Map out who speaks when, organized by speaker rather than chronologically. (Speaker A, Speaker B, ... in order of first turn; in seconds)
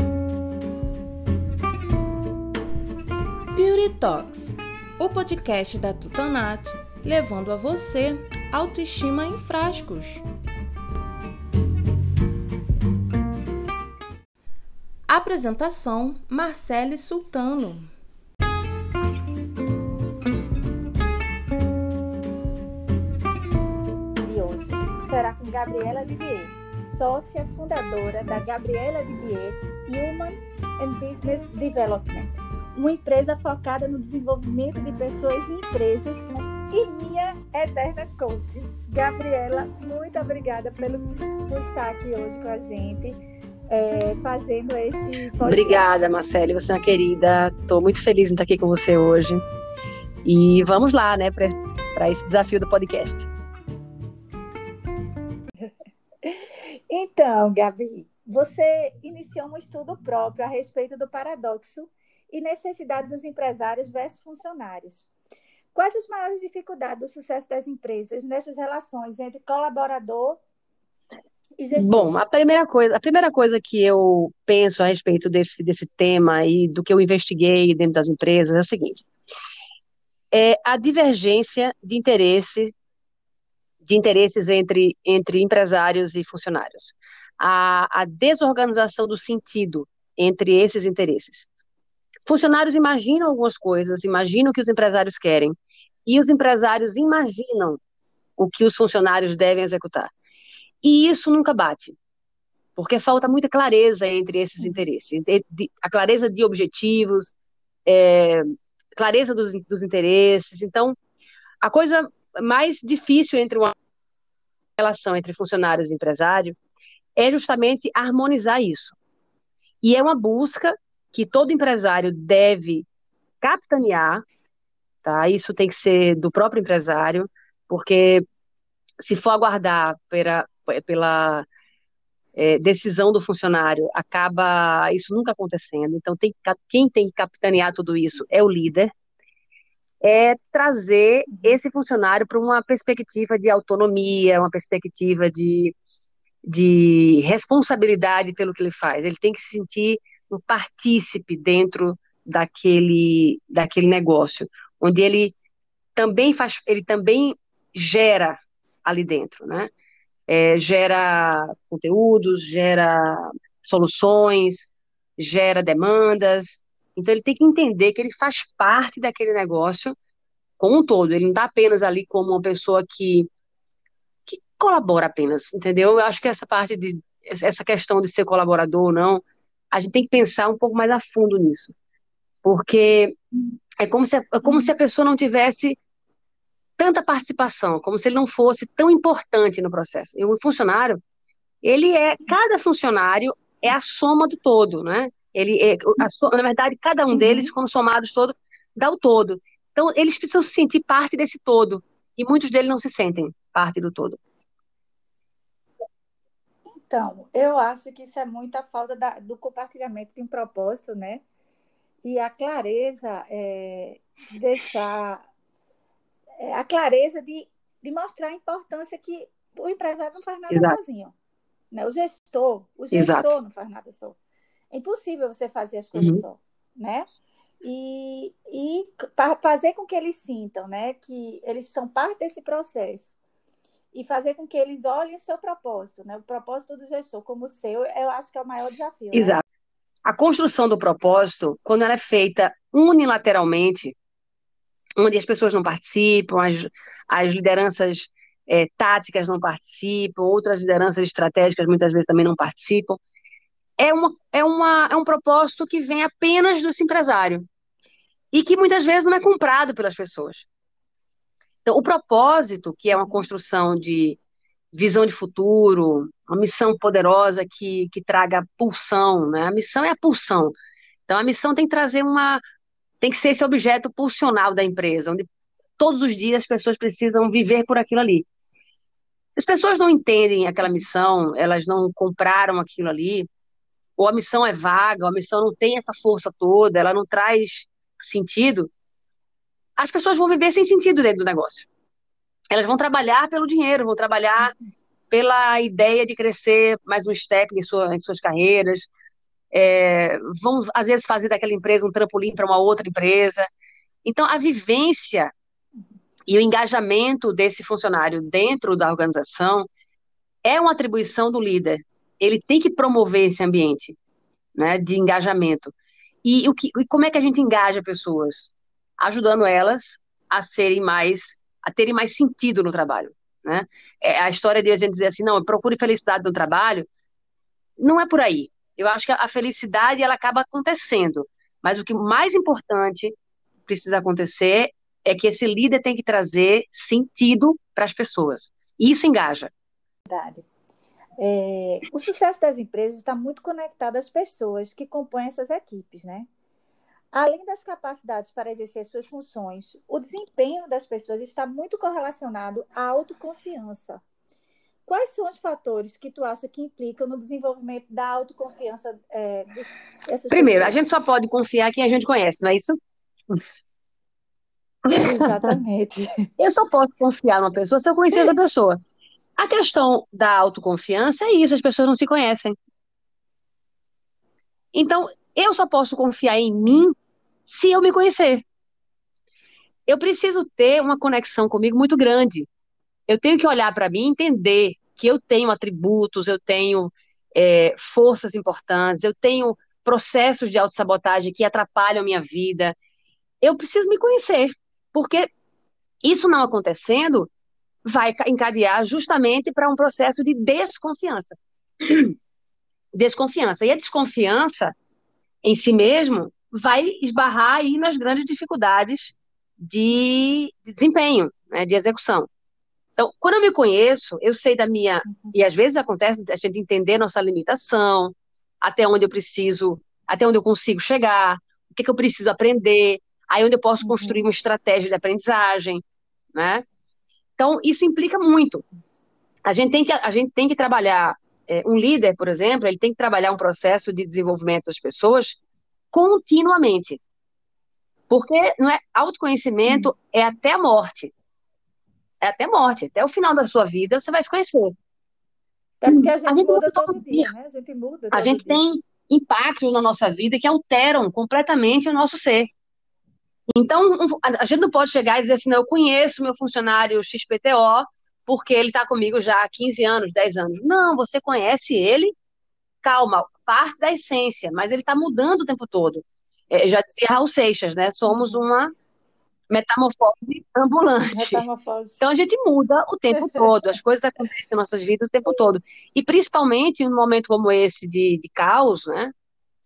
Speaker A: 3.5-10.2, 15.1-17.9
Speaker B: 24.2-46.1, 56.2-65.1, 65.7-70.4, 71.6-72.1, 141.3-141.6, 184.4-184.7, 197.1-197.5, 206.7-211.2, 212.0-215.3, 216.4-221.1, 221.7-224.2, 224.7-227.1, 227.6-233.1, 233.9-239.4, 340.1-340.5, 341.2-346.3, 347.1-354.0, 354.9-360.8, 365.0-366.2, 415.1-415.3, 423.8-424.2, 445.8-448.6, 468.1-468.5, 471.1-472.0, 473.2-473.5
Speaker C: 45.4-49.4, 50.2-53.3, 71.8-79.1, 80.3-82.7, 83.8-91.5, 92.3-95.5, 96.1-97.8, 98.4-100.1, 100.8-102.0, 102.8-107.3, 107.9-111.0, 111.6-113.7, 114.8-116.6, 117.2-119.0, 119.8-122.9, 123.4-124.2, 125.0-128.2, 129.0-131.5, 132.4-138.9, 140.0-145.8, 146.4-155.3, 156.0-159.7, 160.3-170.0, 170.6-173.3, 174.3-181.7, 182.4-183.2, 183.8-185.8, 186.8-191.0, 191.6-204.2, 220.5-220.8, 222.9-223.3, 225.9-226.2, 239.1-239.4, 240.1-243.9, 245.0-253.0, 253.8-257.5, 258.3-260.5, 261.6-264.2, 264.7-270.5, 271.1-272.4, 273.0-275.3, 275.8-278.3, 279.4-283.3, 284.0-288.7, 289.8-291.7, 292.5-294.6, 295.1-298.9, 299.5-303.5, 304.1-305.3, 306.3-309.7, 310.4-314.0, 314.6-326.9, 327.8-333.1, 333.7-339.5, 360.3-362.8, 364.9-365.5, 366.4-368.8, 369.4-372.6, 374.7-376.9, 377.5-378.4, 379.9-382.5, 383.1-392.8, 393.4-395.3, 396.0-397.3, 397.9-402.1, 402.9-404.7, 405.4-412.3, 413.0-425.8, 426.4-426.6, 427.4-428.6, 429.4-435.4, 435.9-437.0, 438.1-441.1, 442.2-444.7, 445.9-447.3, 448.1-452.5, 453.5-462.2, 462.8-468.7, 469.5-471.4, 472.0-479.1